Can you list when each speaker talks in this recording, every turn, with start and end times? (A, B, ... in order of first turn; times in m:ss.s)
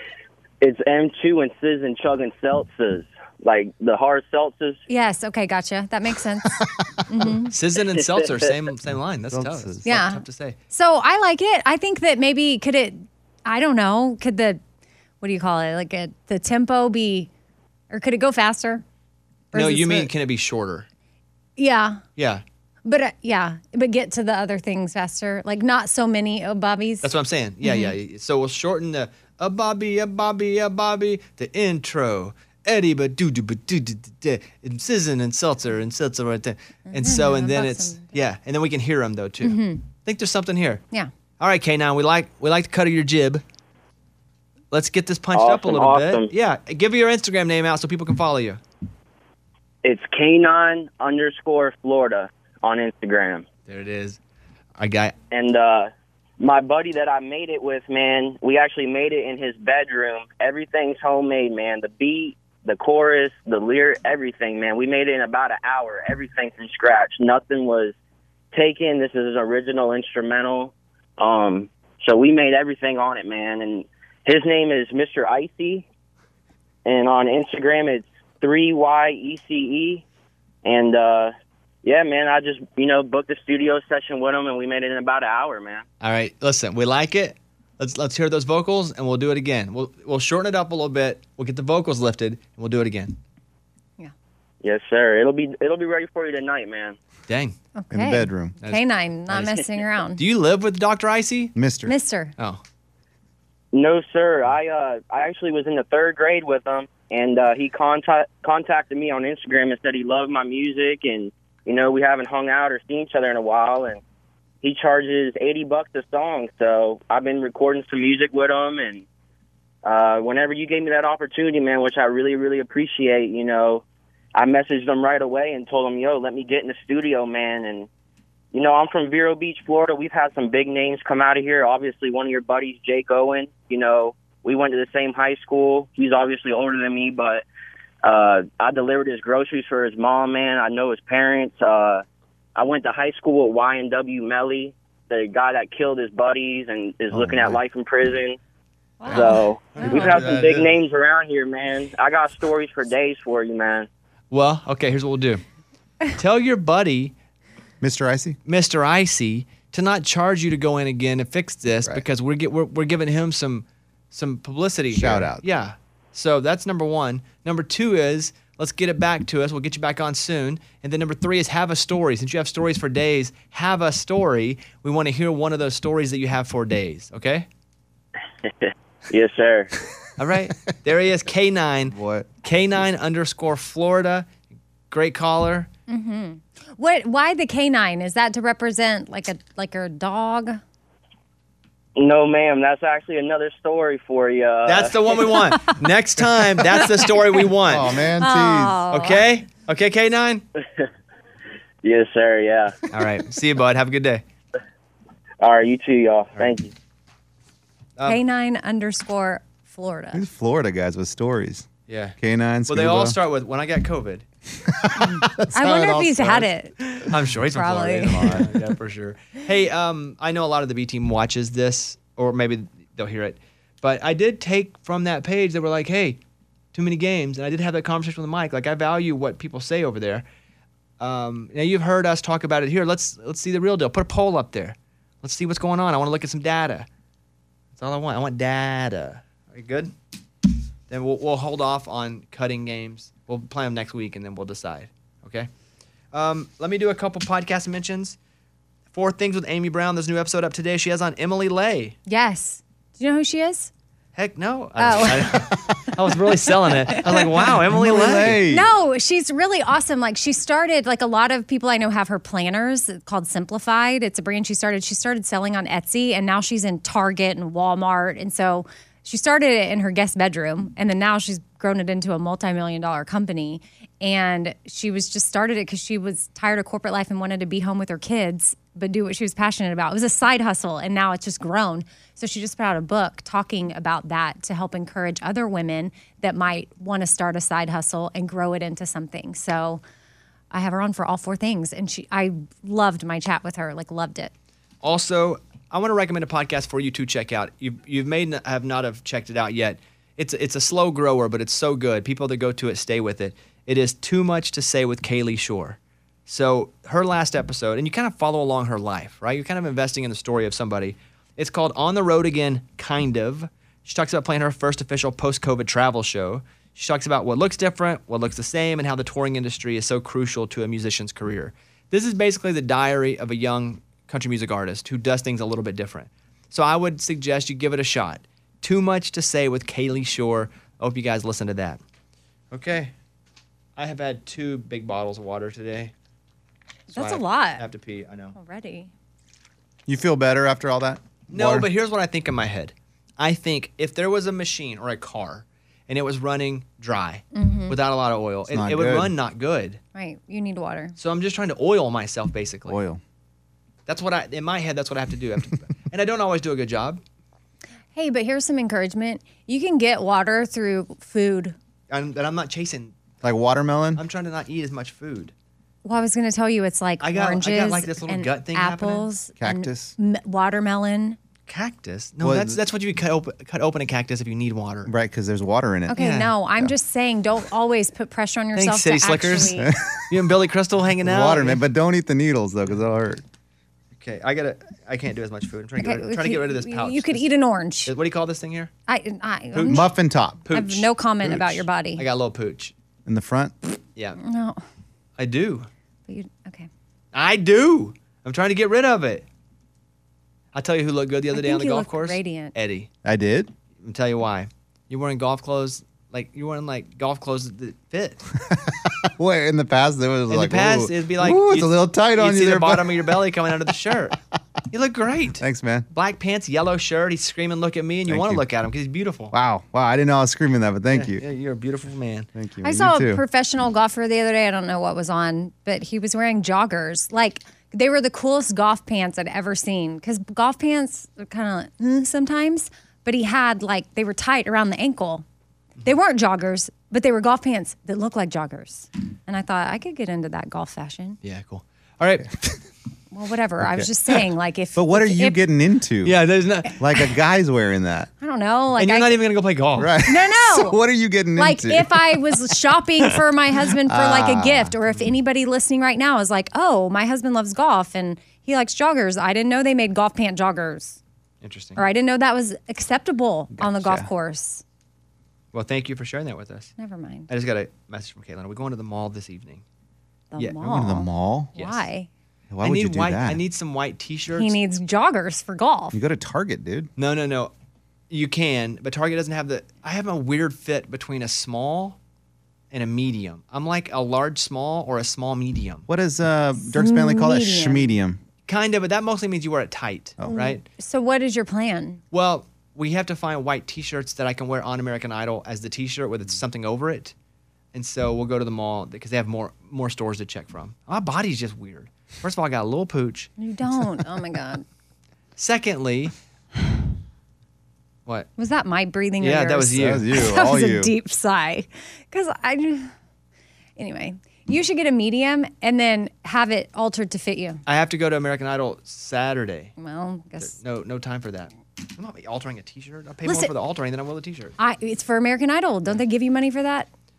0:00.6-0:04.8 A
0:04.9-0:07.5 B
0:06.5-0:06.8 C
0:07.5-0:10.6 D
0:09.3-0:09.8 C
0:09.8-0:14.6 B
0:15.2-0:17.3 B
0:17.9-0:18.8 B
0:19.5-0:20.1 B
0:19.5-0:20.8 D
0:21.6-0:22.0 B
0:22.2-0:22.4 D
0:22.8-0:27.1 B
0:27.0-0:40.8 D
0:27.6-0:27.9 B
0:36.9-0:38.1 B
0:39.4-0:39.8 B
0:41.4-0:43.4 D
0:44.7-0:48.6 D
0:45.3-0:46.3 A
0:49.8-0:53.4 A
0:53.7-0:54.2 D
0:54.8-0:55.2 D
0:55.3-1:07.9 A
1:08.5-1:15.8 A
1:16.8-1:20.0 A
1:20.6-1:21.3 A
1:21.8-1:25.8 A
1:26.0-1:33.2 D
1:34.6-1:37.0 A
1:37.3-1:37.6 D
1:37.8-1:40.2 B
1:37.9-1:38.5 C
1:38.6-1:39.5 D
1:40.2-1:41.5 D
1:41.5-1:41.9 C
1:41.8-1:42.3 B
1:43.7-1:54.0 A
1:54.6-1:59.0 A
1:59.8-2:03.8 A
2:04.3-2:07.9 A
2:08.5-2:17.4 A
2:18.0-2:22.0 A
2:22.5-2:28.4 A
2:27.1-2:27.6 C
2:29.0-2:30.2 B
2:29.0-2:33.9 A
2:29.7-2:30.7 D
2:34.3-2:35.4 D
2:36.1-2:37.1 D
2:37.8-2:38.4 C
2:38.4-2:57.4 D
2:44.9-2:45.4 C
2:58.5-2:59.7 A
3:00.2-3:04.3 D
3:01.9-3:02.3 C
3:04.9-3:05.7 D
3:05.9-3:10.6 B
3:12.0-3:15.0 A
3:14.6-3:17.9 D
3:17.6-3:18.8 C
3:18.2-3:19.2 B
3:18.9-3:20.4 D
3:21.8-3:22.8 A
3:22.9-3:24.2 D
3:25.4-3:26.7 A
3:28.0-3:30.2 B
3:30.1-3:31.7 C
3:31.9-3:32.2 D
3:32.2-3:33.2 C
3:32.7-3:34.2 D
3:34.6-3:36.4 C
3:35.5-3:36.8 B
3:36.9-3:46.2 D
3:37.5-3:38.4 B
3:46.7-3:50.2 D
3:51.0-3:56.9 D
3:57.7-3:59.9 D
4:00.9-4:05.5 D
4:06.1-4:08.2 D
4:08.9-4:12.0 D
4:12.1-4:13.7 B
4:14.1-4:18.4 D
4:14.8-4:15.4 B
4:16.9-4:17.2 B
4:17.5-4:18.7 C
4:18.4-4:49.8 B
4:50.5-4:54.3 B
4:54.8-5:31.8 D
5:32.5-5:32.9 D
5:33.8-5:35.9 D
5:36.9-5:37.6 B
5:36.9-5:38.4 D
5:38.4-5:38.9 B
5:39.9-5:41.7 C
5:41.3-5:49.8 D
5:47.3-5:47.8 B
5:48.5-5:49.1 C
5:49.9-5:50.9 B
5:51.0-5:52.8 D
5:52.7-5:53.0 C
5:53.9-5:57.0 D
5:57.9-6:01.6 B
6:01.9-6:02.9 D
6:03.2-6:04.0 C
6:04.0-6:05.3 D
6:05.8-6:11.2 B
6:07.0-6:09.1 D
6:09.4-6:09.9 C
6:11.5-6:14.9 D
6:12.2-6:12.6 C
6:14.9-6:16.1 C
6:15.9-6:19.7 B
6:16.0-6:16.3 D
6:18.6-6:21.6 D
6:19.6-6:20.3 C
6:21.0-6:23.2 C
6:24.0-6:27.3 D
6:25.8-6:27.9 B
6:27.9-6:28.7 D
6:28.9-6:29.9 B
6:29.5-6:29.9 D
6:29.7-6:30.4 C
6:30.4-6:32.7 D
6:30.5-6:32.0 B
6:33.0-6:33.8 C
6:34.2-6:34.6 B
6:35.2-6:35.7 D
6:36.1-6:36.7 B
6:37.1-6:39.2 D
6:40.5-6:42.9 D
6:41.3-6:42.5 B
6:43.0-6:43.5 C
6:43.8-6:48.2 D
6:48.5-6:53.3 C
6:50.3-6:54.2 D
6:54.7-6:59.4 D
6:55.4-6:55.9 C
6:58.1-6:58.4 C
6:59.3-7:01.2 C
7:00.9-7:02.3 D
7:02.4-7:03.2 C
7:02.6-7:15.2 B
7:15.8-7:21.2 B
7:21.2-7:22.6 D
7:23.1-7:25.4 B
7:23.6-7:23.9 C
7:24.8-7:26.2 C
7:26.0-7:27.1 D
7:26.8-7:28.1 C
7:28.2-7:29.2 B
7:28.8-7:30.0 D
7:29.8-7:32.2 C
7:30.0-7:30.8 B
7:31.4-7:41.0 B
7:33.8-7:34.9 C
7:41.4-7:41.8 D
7:41.8-7:44.6 B
7:43.5-7:44.1 C
7:45.5-7:46.7 D
7:46.8-7:47.3 B
7:47.3-7:49.6 D
7:50.3-7:52.1 B
7:50.6-7:51.5 C
7:51.6-7:51.9 D
7:52.5-7:53.4 C
7:52.6-7:54.6 D
7:54.3-7:56.0 B
7:55.9-7:56.9 C
7:57.0-7:57.5 D
7:58.1-8:02.0 D
8:02.7-8:05.9 D
8:05.9-8:08.2 C
8:06.6-8:07.9 B
8:08.5-8:10.6 D
8:10.3-8:12.0 B
8:12.1-8:17.1 D
8:17.7-8:23.3 D
8:23.4-8:24.6 B
8:25.4-8:26.1 D
8:28.4-8:32.9 B
8:29.2-8:30.0 D
8:29.7-8:30.9 C
8:33.8-8:37.6 B
8:37.6-8:39.7 D
8:39.8-8:40.5 B
8:40.4-8:44.5 D
8:43.2-8:43.5 B
8:44.6-8:46.9 B